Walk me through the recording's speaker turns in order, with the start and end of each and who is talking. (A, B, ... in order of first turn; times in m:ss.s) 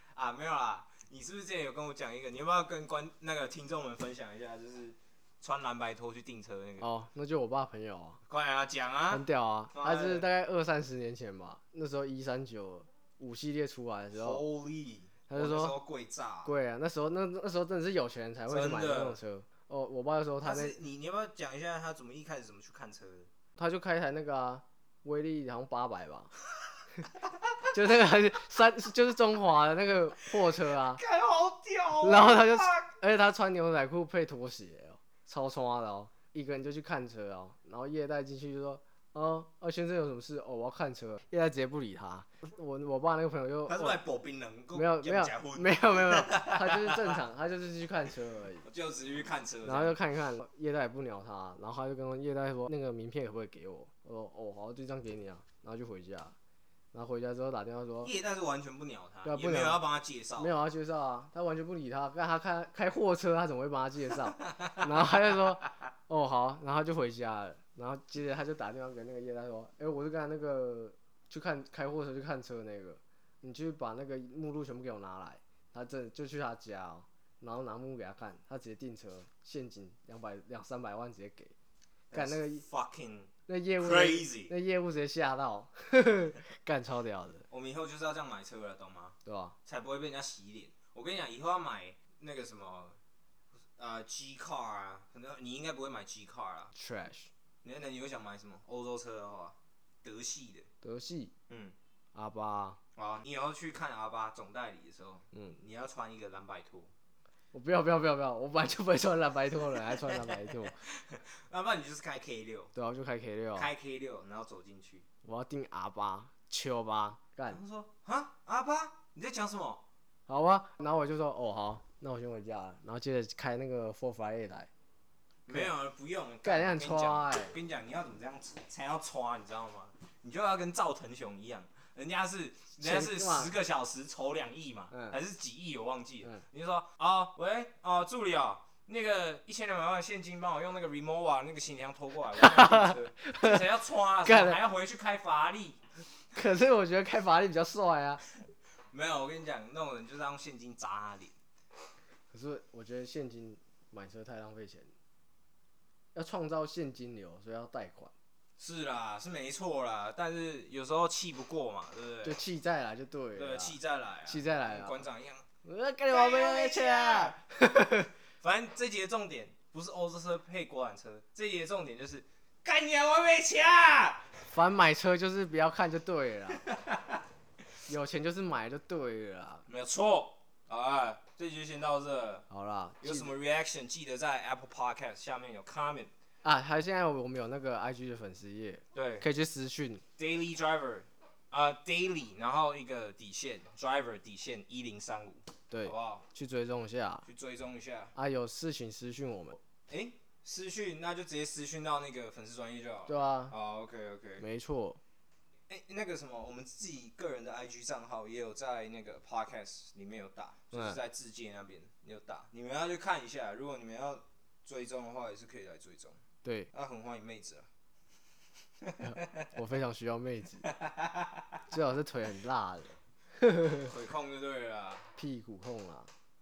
0:00.1-0:06.9 A
0:06.8-0:08.2 B
0:08.3-0:10.3 A
0:09.1-0:14.4 B
0:14.1-0:16.5 A
0:15.3-0:15.8 B
0:16.4-0:20.8 B
0:18.5-0:19.2 A
0:20.4-0:23.3 A
0:23.6-0:26.3 B
0:27.7-0:31.0 B
0:30.5-0:32.9 A
0:32.0-0:44.0 B
0:43.7-0:47.2 A
0:44.7-0:48.7 B
0:48.6-0:50.0 A
0:49.6-0:56.4 B
0:56.9-0:58.1 B
0:58.0-1:00.5 A
0:59.2-0:59.8 B
1:00.4-1:21.5 B
1:04.4-1:05.4 A
1:22.1-1:24.5 A
1:22.1-1:22.6 B
1:23.5-1:27.5 B
1:27.5-1:33.0 A
1:29.2-1:29.6 B
1:33.8-1:36.7 A
1:36.7-1:37.3 B
1:37.6-1:40.7 A
1:40.8-1:41.3 B
1:41.5-1:41.8 A
1:42.2-1:42.8 B
1:43.0-1:46.9 A
1:45.3-1:45.6 B
1:47.5-1:50.8 B
1:49.9-1:52.7 A
1:52.8-1:53.7 B
1:53.5-1:55.1 A
1:55.2-1:57.6 B
1:57.5-1:59.8 A
2:00.3-2:04.7 B
2:05.5-2:25.8 A
2:06.4-2:07.6 B
2:12.8-2:13.6 B
2:14.9-2:15.2 B
2:22.4-2:23.6 B
2:24.2-2:24.6 B
2:26.3-2:28.2 B
2:28.9-2:31.4 A
2:32.3-2:34.9 B
2:36.2-2:38.1 B
2:38.6-2:42.4 A
2:42.2-2:45.0 B
2:43.4-2:45.5 A
2:45.6-2:48.1 B
2:46.1-2:47.4 A
2:48.4-2:54.3 A
2:54.5-2:56.6 B
2:56.6-2:57.2 A
2:57.9-2:59.7 B
2:59.7-3:02.5 A
3:02.5-3:03.3 B
3:03.0-3:06.1 A
3:06.4-3:10.0 B
3:08.9-3:09.3 A
3:10.2-3:16.3 A
3:15.7-3:17.3 B
3:17.3-3:18.2 A
3:18.2-3:19.6 B
3:19.9-3:24.5 A
3:23.1-3:23.6 B
3:24.4-3:25.0 B
3:25.7-3:36.2 A
3:30.7-3:31.0 B
3:36.4-3:36.7 B
3:36.7-3:37.7 A
3:38.8-3:39.5 A
3:39.0-3:40.7 B
3:40.6-3:41.6 A
3:41.7-3:43.9 B
3:43.8-3:45.1 A
3:45.2-3:46.1 B